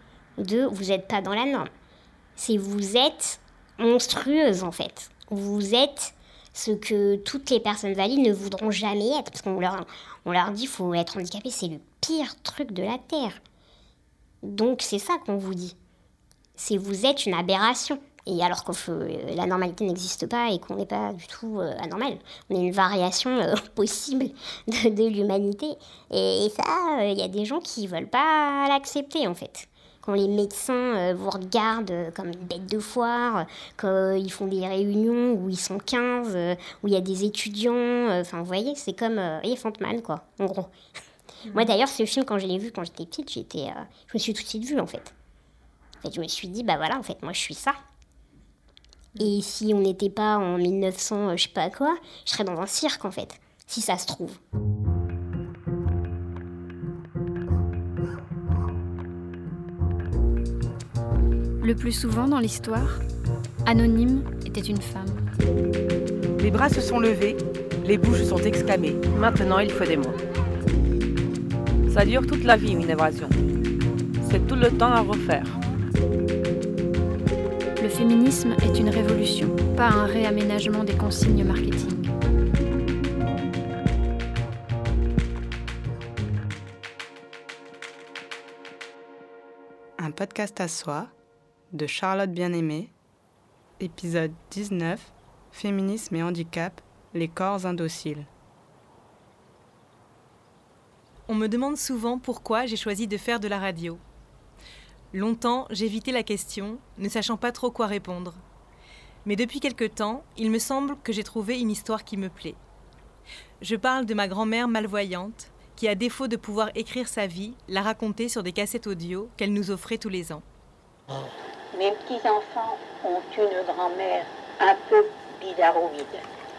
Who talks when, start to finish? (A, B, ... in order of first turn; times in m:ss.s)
0:00.4-0:01.7 A
0:02.4-0:13.4 A
0:14.4-0:15.8 A
0:16.6-0:40.7 A
0:41.5-0:45.1 A
0:46.0-0:47.8 A
0:49.2-0:54.4 A
1:01.6-1:03.0 B
1:03.6-1:05.2 B
1:06.4-1:10.2 C
1:11.9-1:13.3 C
1:14.2-1:15.6 C
1:17.8-1:22.1 B
1:30.0-1:31.1 D
1:31.7-1:32.9 D
1:33.8-1:38.3 D
1:41.3-1:44.0 E
1:45.1-1:48.4 E
1:49.2-1:52.6 E
1:53.6-2:00.4 E
2:01.7-2:06.2 F